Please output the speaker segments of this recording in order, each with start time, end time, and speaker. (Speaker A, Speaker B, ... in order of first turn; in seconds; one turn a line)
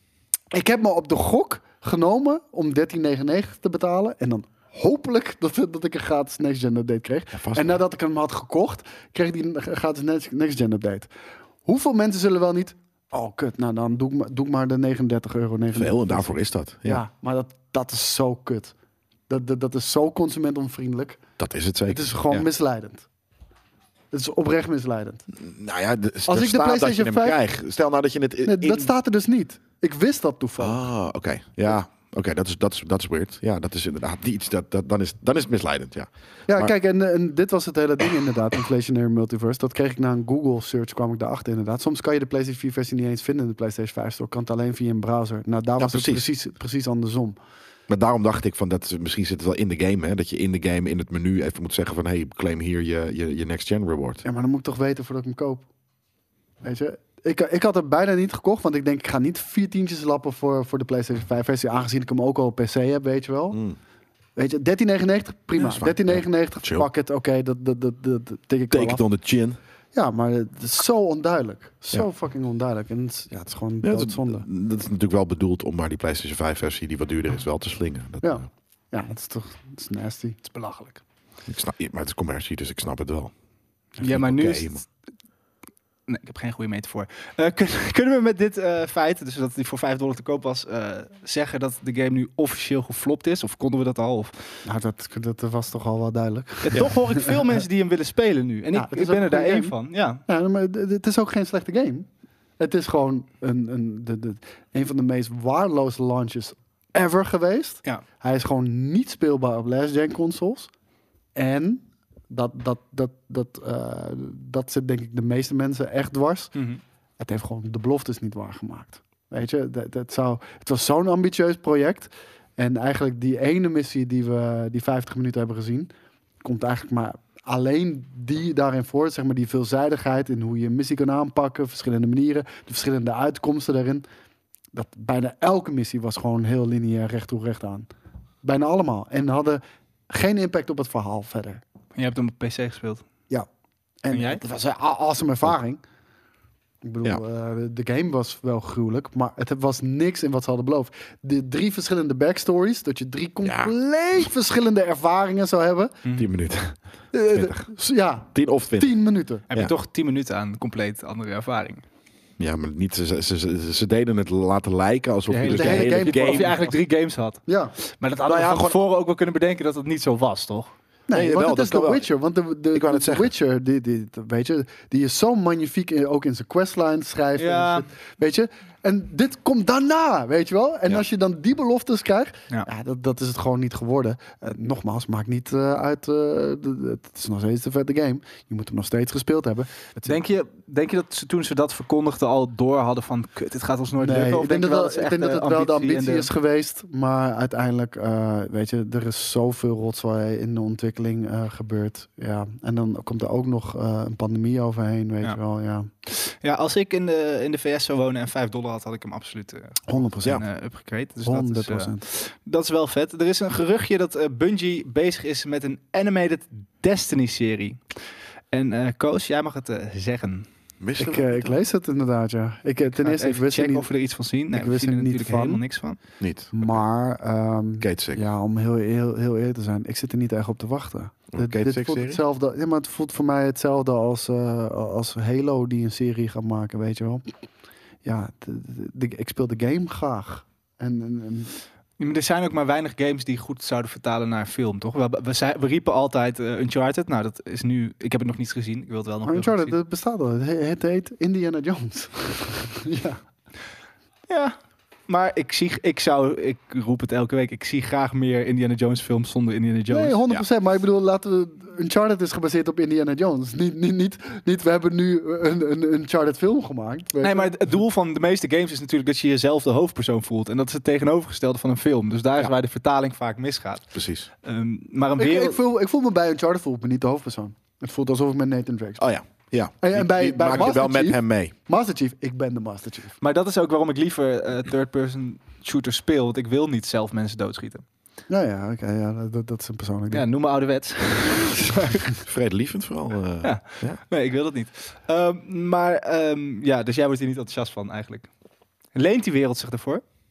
Speaker A: 0.5-11.1
Speaker B: 7.3-7.8
Speaker A: 11.7-16.3
Speaker B: 15.7-17.0
Speaker A: 16.8-18.7
Speaker A: 19.3-21.2
Speaker B: 21.4-22.5
Speaker A: 21.9-23.1
Speaker A: 24.1-25.2
Speaker B: 25.4-28.9
Speaker A: 26.3-27.4
Speaker A: 28.4-30.8
Speaker B: 30.6-36.7
Speaker A: 36.5-47.4
Speaker B: 45.8-46.2
Speaker B: 47.9-54.2
Speaker A: 54.2-55.6
Speaker A: 56.6-63.6
Speaker B: 63.5-63.8
Speaker A: 64.3-69.0
Speaker B: 65.5-66.9
Speaker B: 68.7-69.6
Speaker A: 69.9-74.4
Speaker B: 73.8-78.4
Speaker A: 78.2-80.4
Speaker C: 80.4-81.0
Speaker B: 81.5-83.3
Speaker C: 84.0-84.9
Speaker B: 84.0-84.8
Speaker C: 86.1-94.3
Speaker A: 94.6-97.4
Speaker C: 96.6-100.2
Speaker A: 98.7-99.7
Speaker A: 100.2-102.1
Speaker A: 102.6-110.7
Speaker A: 111.3-116.5
Speaker C: 116.5-116.8
Speaker A: 117.2-125.9
Speaker A: 126.4-134.0
Speaker A: 134.7-137.9
Speaker A: 138.4-141.6
Speaker C: 141.9-143.0
Speaker A: 144.0-145.8
Speaker C: 144.1-144.4
Speaker A: 146.8-155.9
Speaker B: 153.4-153.7
Speaker B: 156.2-156.8
Speaker A: 157.1-159.4
Speaker B: 157.3-157.7
Speaker B: 158.3-158.9
Speaker C: 159.5-161.8
Speaker B: 162.4-166.6
Speaker C: 165.3-170.7
Speaker A: 165.4-166.7
Speaker A: 167.5-167.7
Speaker B: 168.2-168.8
Speaker A: 171.1-190.2
Speaker B: 171.1-172.1
Speaker B: 172.7-173.3
Speaker C: 177.4-177.9
Speaker C: 190.0-196.3
Speaker A: 194.0-205.9
Speaker C: 206.1-217.8
Speaker A: 209.9-210.4
Speaker A: 211.2-212.0
Speaker C: 218.5-220.5
Speaker B: 220.8-221.6
Speaker A: 221.0-223.9
Speaker C: 222.9-226.0
Speaker A: 224.5-225.6
Speaker B: 226.2-226.8
Speaker A: 226.5-237.2
Speaker B: 227.8-228.2
Speaker B: 231.3-232.2
Speaker A: 238.0-241.5
Speaker C: 242.0-249.8
Speaker A: 249.2-253.2
Speaker C: 254.3-254.6
Speaker C: 255.1-260.2
Speaker A: 259.9-267.6
Speaker C: 267.2-273.9
Speaker B: 273.9-274.3
Speaker C: 274.4-275.6
Speaker A: 275.2-279.0
Speaker B: 279.0-281.5
Speaker A: 279.8-283.2
Speaker C: 283.2-287.8
Speaker A: 288.3-290.2
Speaker C: 290.1-292.0
Speaker B: 292.2-294.0
Speaker C: 293.4-298.3
Speaker C: 298.9-300.0